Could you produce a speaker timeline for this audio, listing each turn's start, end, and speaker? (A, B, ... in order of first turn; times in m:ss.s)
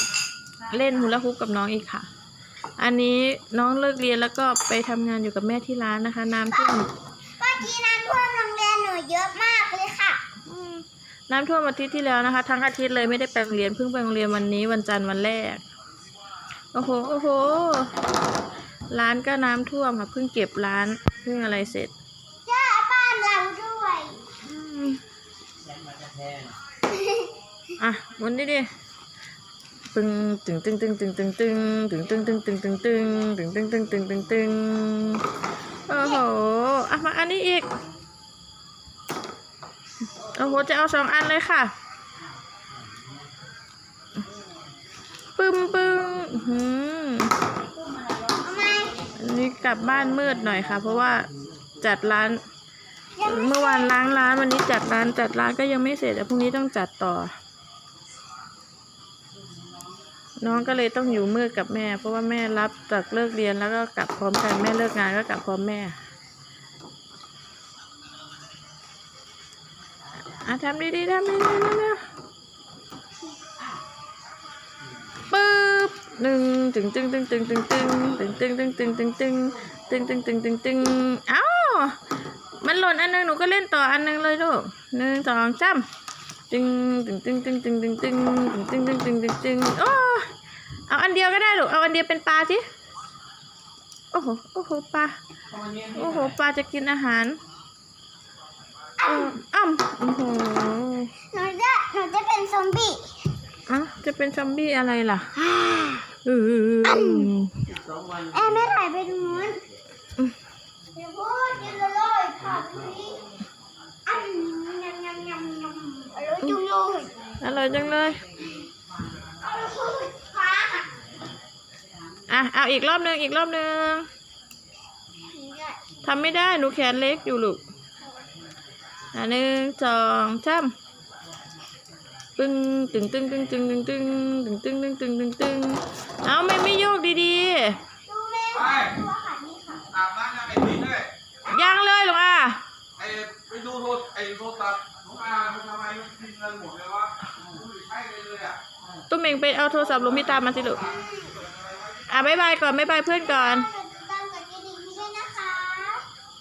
0:00.7-0:02.1 A
0:02.8-0:06.9 A
0:06.5-0:06.8 B
0:07.4-0:10.2 B
0:10.4-0:15.6 A
0:16.7-0:17.9 A
0:18.9-0:21.9 A
0:22.4-0:24.2 B
0:24.4-0:25.0 A
0:26.9-0:27.3 B
0:27.8-0:28.7 A
0:29.9-0:35.2 A
0:35.9-0:37.6 A
0:35.9-0:36.2 B
0:40.3-0:41.7 A
0:45.4-0:47.3 A
0:48.2-0:49.0 B
0:49.2-0:52.4 A
0:53.2-0:53.9 B
0:53.2-0:57.3 A
1:00.4-1:06.0 A
1:10.3-1:12.0 A
1:15.3-1:22.0 A
1:22.6-1:25.8 A
1:26.5-1:30.3 A
1:30.9-1:32.6 A
1:34.1-1:35.2 A
1:35.8-1:37.4 A
1:39.0-1:39.3 B
1:39.0-1:41.1 A
1:41.3-1:43.1 B
1:43.7-1:45.3 A
1:45.4-1:46.1 B
1:46.2-1:47.8 A
1:46.8-1:47.3 B
1:48.1-1:49.6 B
1:50.9-1:53.2 B
1:54.1-1:57.1 B
1:57.4-1:58.2 A
1:59.4-2:00.9 B
2:02.3-2:04.1 A
2:05.3-2:05.8 B
2:06.0-2:07.6 A
2:09.1-2:10.7 A
2:12.4-2:17.8 A
2:18.1-2:19.9 B
2:20.0-2:21.1 C
2:21.4-2:22.6 A
2:23.0-2:28.6 C
2:29.1-2:30.8 A
2:30.8-2:31.3 B
2:32.1-2:33.7 A
2:33.2-2:36.0 B